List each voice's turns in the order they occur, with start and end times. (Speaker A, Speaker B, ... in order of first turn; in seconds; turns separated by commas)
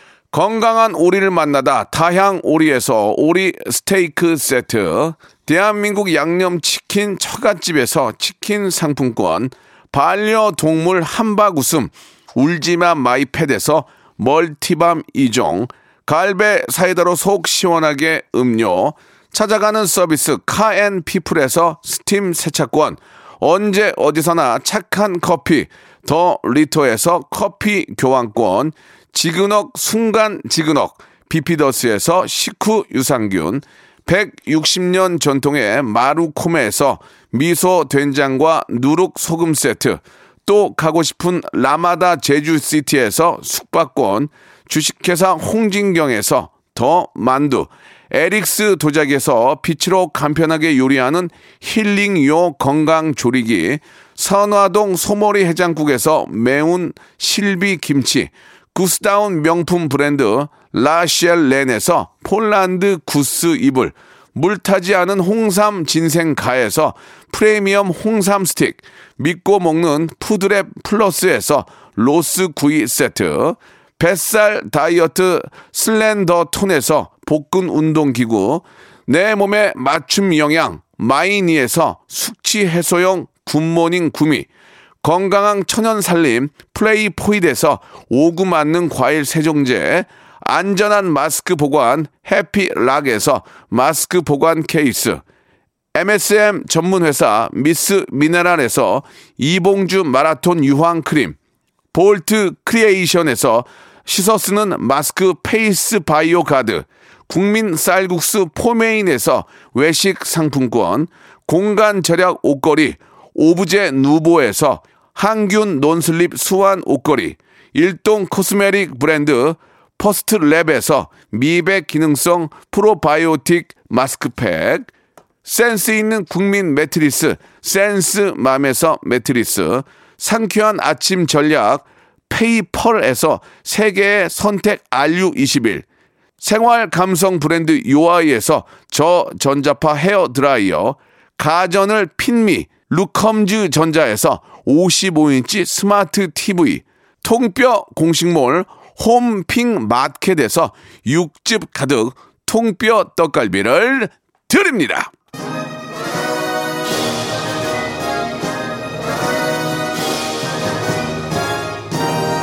Speaker A: 0.3-84.5, Speaker A: 85.0-95.2, Speaker A: 95.9-101.3, Speaker A: 101.9-124.9, Speaker A: 125.4-135.8, Speaker A: 136.4-155.1